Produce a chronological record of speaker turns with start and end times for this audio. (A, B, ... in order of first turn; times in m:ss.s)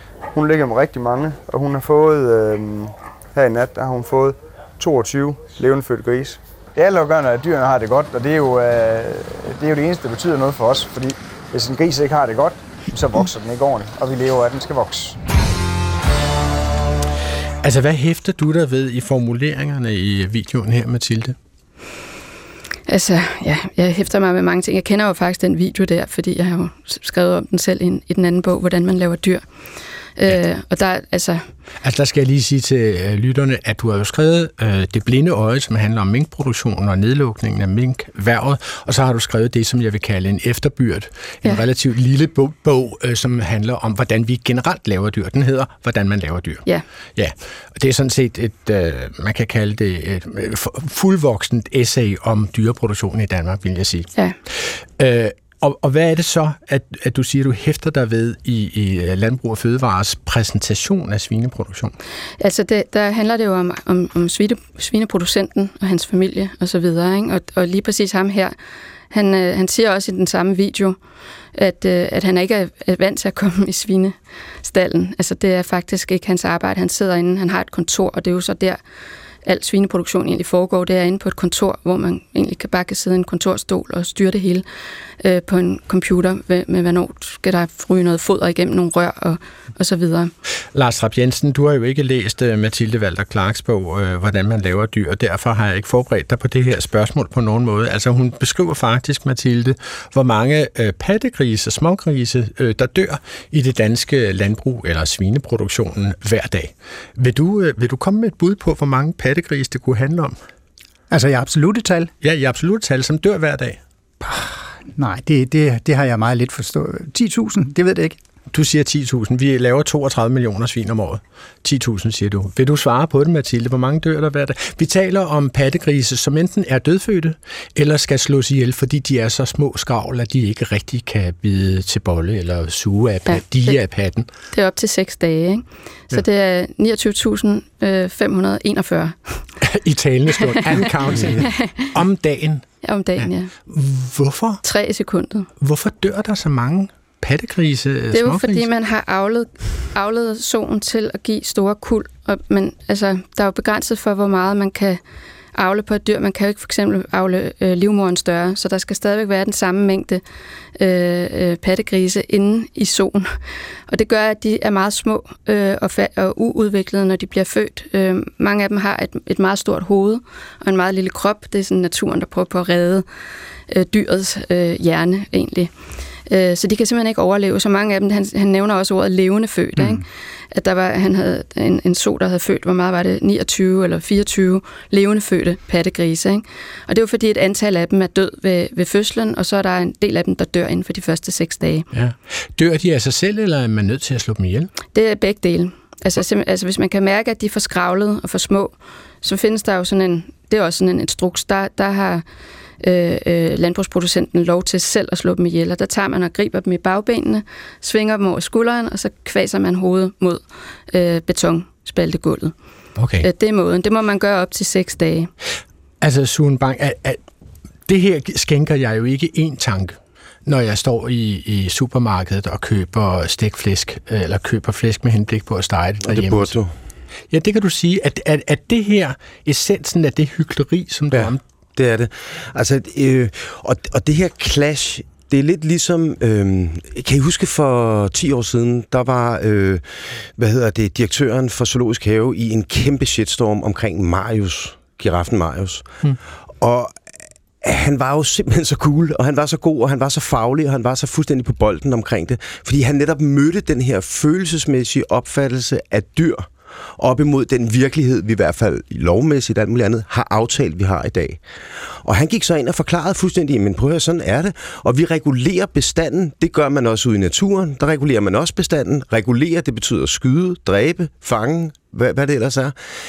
0:00.3-0:15.2 A
0:17.6-0:21.4 B
0:22.9-0:29.4 C
0:30.2-0:31.4 C
0:31.8-1:01.9 B
1:02.4-1:08.5 C
1:09.1-1:11.0 C
1:11.5-1:18.8 C
1:19.4-1:24.6 C
1:25.2-1:30.3 C
1:30.7-1:50.4 B
1:51.1-1:52.1 D
1:52.2-1:53.8 B
1:54.2-1:58.2 D
1:58.5-2:14.3 B
2:13.3-2:13.8 C
2:14.5-2:19.4 C
2:19.6-2:22.7 B
2:21.4-2:21.9 C
2:22.8-2:23.5 C
2:23.2-2:24.6 B
2:24.6-2:25.5 C
2:25.6-2:28.6 B
2:28.1-2:35.0 C
2:35.5-2:40.2 C
2:40.8-2:43.3 C
2:43.9-2:53.0 C
2:53.7-2:55.7 C
2:56.2-3:11.8 C
3:11.9-3:14.7 B
3:14.9-3:22.2 C
3:22.8-3:32.5 C
3:33.0-3:33.3 B
3:33.2-3:35.3 C
3:36.0-3:37.2 B
3:37.9-3:46.5 B
3:46.1-3:46.7 E
3:47.3-3:51.4 B
3:51.1-4:05.9 E
4:06.6-4:07.0 E
4:07.6-4:32.8 E